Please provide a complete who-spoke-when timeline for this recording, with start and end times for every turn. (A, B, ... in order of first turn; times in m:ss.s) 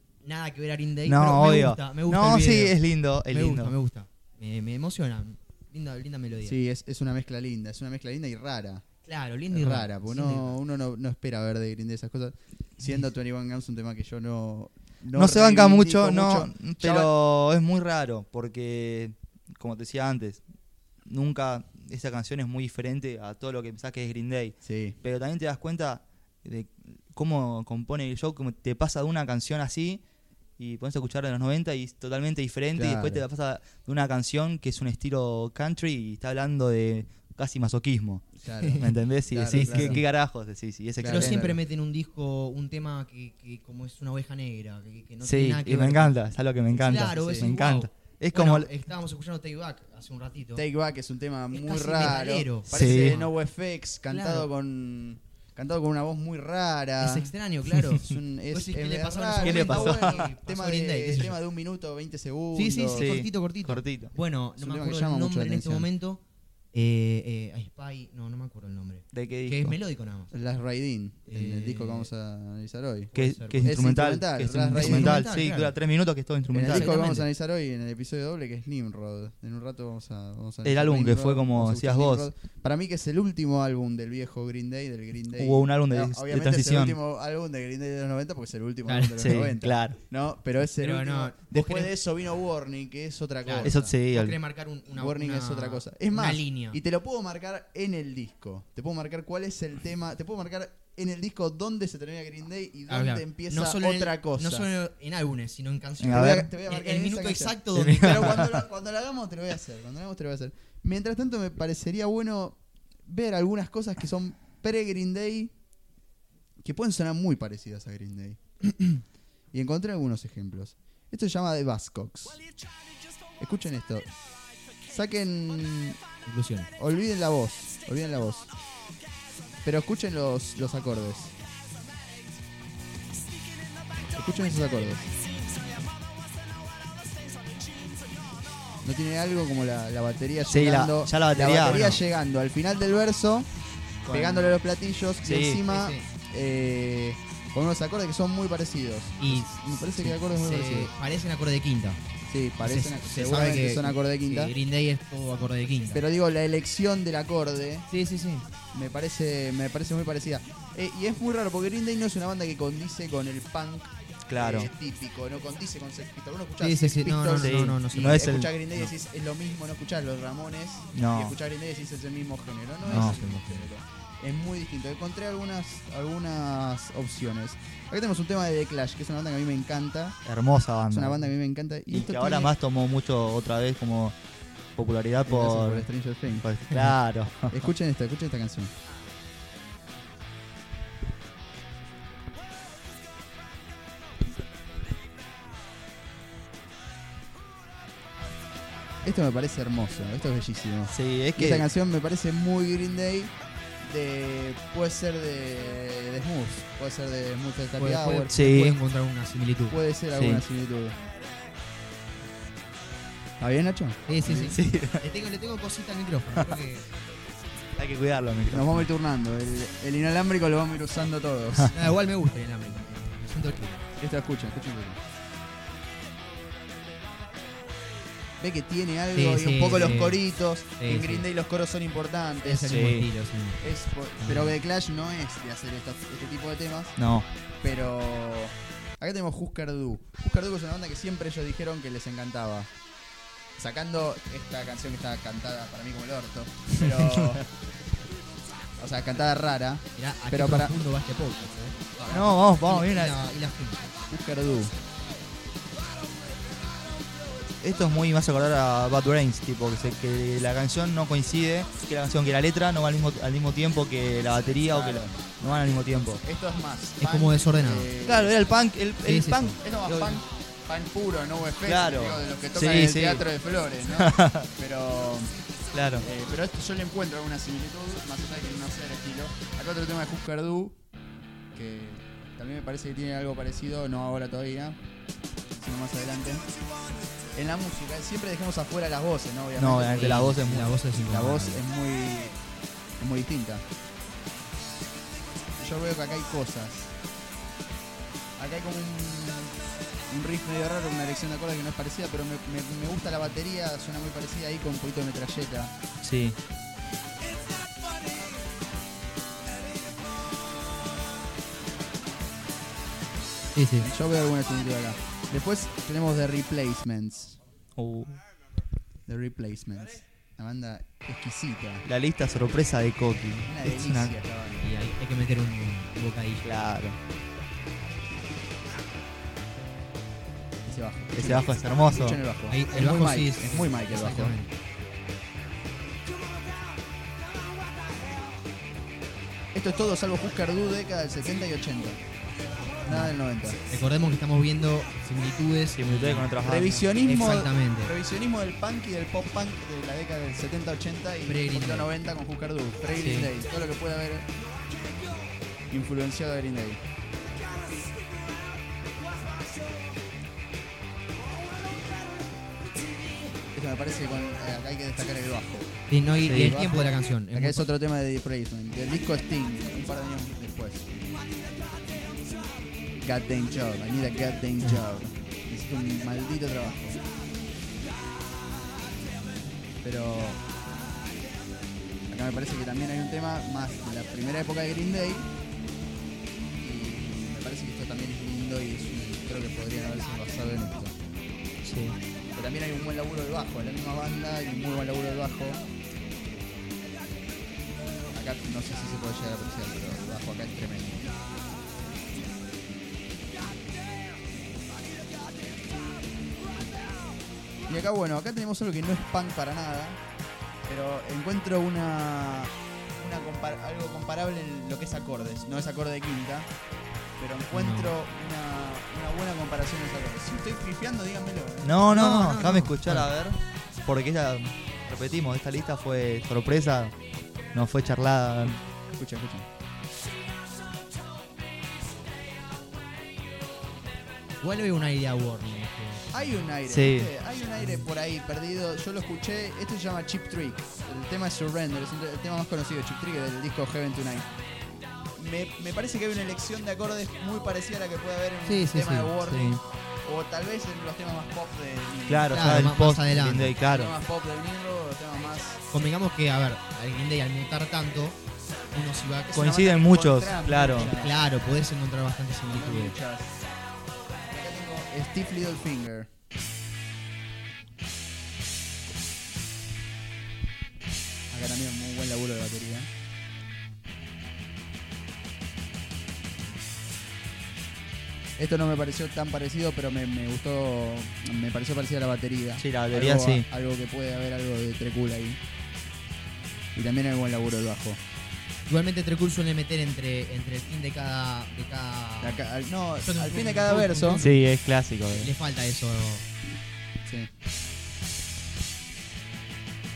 0:00.2-0:06.6 A
0:01.0-0:03.8 B
0:06.4-0:08.8 C
0:09.0-0:10.6 A
0:09.5-0:17.1 C
0:15.1-0:20.4 B
0:21.1-0:30.0 B
0:24.6-0:25.0 C
0:30.6-0:41.6 B
0:32.8-0:33.2 C
0:38.4-0:40.0 C
0:38.6-0:38.9 A
0:39.5-0:40.0 A
0:41.0-0:41.6 C
0:41.0-0:46.2 A
0:45.2-0:48.7 B
0:46.7-0:50.7 A
0:47.2-0:47.5 C
0:50.6-0:57.3 C
0:51.5-0:53.3 A
0:52.7-0:53.2 B
0:54.1-0:54.5 A
0:57.0-1:01.4 A
0:58.0-1:03.1 C
0:59.4-1:00.3 B
1:02.5-1:10.3 A
1:02.9-1:04.1 B
1:04.6-1:05.9 C
1:09.1-1:09.8 B
1:10.3-1:13.1 C
1:11.3-1:12.1 A
1:13.1-1:13.7 A
1:13.2-1:17.0 B
1:13.6-1:15.3 C
1:14.6-1:15.7 A
1:16.5-1:33.9 C
1:16.7-1:17.3 A
1:20.6-1:22.3 B
1:25.3-1:27.0 B
1:28.9-1:29.4 A
1:29.2-1:30.0 B
1:30.8-1:31.9 A
1:33.4-1:36.8 A
1:33.6-1:34.4 B
1:34.9-1:44.7 C
1:42.9-1:48.5 A
1:46.0-1:46.5 B
1:46.0-1:55.5 C
1:47.8-1:48.6 B
1:56.6-2:02.4 C
2:03.4-2:04.1 C
2:04.9-2:06.0 C
2:06.2-2:06.7 A
2:06.8-2:08.5 C
2:09.6-2:11.4 C
2:14.0-2:15.1 C
2:18.8-2:23.5 C
2:20.5-2:22.0 B
2:24.0-2:24.6 B
2:24.1-2:30.9 C
2:25.2-2:25.6 B
2:25.7-2:26.1 A
2:29.2-2:32.0 A
2:32.3-2:34.5 C
2:32.6-2:36.0 A
2:35.9-2:37.9 C
2:37.9-2:38.5 A
2:38.7-3:00.2 C
2:44.3-2:44.7 B
2:46.6-2:48.3 A
2:47.4-2:48.5 B
2:51.0-2:51.4 B
2:52.8-2:53.7 A
2:52.9-2:53.2 B
3:00.2-3:01.3 B
3:00.9-3:02.6 C
3:01.9-3:04.2 B
3:04.8-3:05.9 B
3:05.3-3:06.5 C
3:06.4-3:07.6 B
3:07.5-3:08.7 C
3:19.0-3:28.4 C
3:20.9-3:21.6 B
3:27.8-3:29.8 A
3:28.3-3:28.8 B
3:29.7-3:31.0 C
3:30.2-3:30.4 B
3:33.4-3:34.6 C
3:34.1-3:36.9 A
3:34.4-3:35.0 B
3:37.8-3:38.9 B
3:38.5-3:41.8 C
3:41.7-3:43.8 A
3:44.0-3:45.0 C
3:48.4-3:52.9 C
3:49.1-3:50.2 A
3:50.8-3:51.3 A
3:52.4-3:54.6 A
3:52.7-3:53.1 B
3:53.6-3:57.0 C
3:57.0-3:57.3 B
3:57.6-4:02.7 C
4:03.6-4:07.5 C
4:08.8-4:10.7 C
4:10.0-4:13.9 A
4:12.1-4:13.2 B
4:14.1-4:14.7 C
4:17.6-4:26.2 B
4:24.6-4:25.2 C
4:26.2-4:28.5 C
4:27.0-4:27.9 A
4:28.0-4:29.6 B
4:29.0-4:30.1 A
4:29.6-4:35.3 C
4:31.7-4:33.3 B
4:33.9-4:34.5 B
4:35.7-4:36.1 B
4:36.0-4:40.8 C
4:41.5-4:44.8 C
4:45.5-4:46.5 C
4:47.4-4:50.4 C
4:49.6-4:50.8 B
4:49.9-4:51.6 A
4:51.1-4:52.4 C
4:53.0-4:53.6 C
4:55.6-4:56.9 C
4:58.4-5:05.8 C
5:06.0-5:06.4 B
5:13.6-5:13.9 A
5:13.8-5:17.4 C
5:17.8-5:18.2 B
5:19.1-5:21.8 C
5:21.8-5:24.2 B
5:23.5-5:24.7 C
5:24.6-5:26.5 A
5:26.4-5:27.0 B
5:30.6-5:34.4 C
5:31.2-5:32.2 B
5:32.5-5:34.6 A
5:39.5-5:42.0 C
5:42.8-5:43.6 C
5:42.9-5:43.2 A
5:43.7-5:48.0 A
5:45.8-5:46.9 B
5:46.4-5:54.3 C
5:51.3-5:51.9 A
5:53.0-5:53.3 B
5:55.7-5:56.8 C
6:03.5-6:11.0 C
6:05.9-6:07.7 A
6:06.3-6:06.6 B
6:13.0-6:17.0 C
6:19.8-6:20.4 C
6:22.1-6:25.3 C
6:26.6-6:31.0 C
6:31.6-6:32.0 B
6:32.4-6:35.6 C
6:38.1-6:41.2 C
6:47.7-6:50.0 C
6:50.7-6:56.5 C
6:57.2-7:01.8 C
6:57.5-6:58.0 A
7:01.6-7:07.0 B
7:01.9-7:03.1 A
7:07.5-7:08.6 B
7:09.0-7:09.5 C
7:14.4-7:16.2 A
7:16.1-7:24.3 C
7:16.7-7:17.1 B
7:25.2-7:32.7 C
7:28.4-7:29.1 A
7:29.2-7:29.6 B
7:32.1-7:33.9 B
7:32.3-7:33.5 A
7:33.6-7:35.6 C
7:35.7-7:38.2 A
7:38.7-7:39.7 A
7:39.3-7:41.2 C
7:39.3-7:40.9 B
7:40.8-7:43.0 A
7:42.5-7:43.4 C
7:44.3-7:46.1 C
7:51.3-7:52.9 C
7:58.4-8:05.4 C
8:02.6-8:03.4 B
8:06.8-8:08.0 C
8:08.7-8:12.4 A
8:12.2-8:14.2 C
8:13.0-8:14.4 A
8:14.2-8:15.3 B
8:15.1-8:16.2 A
8:17.0-8:17.3 C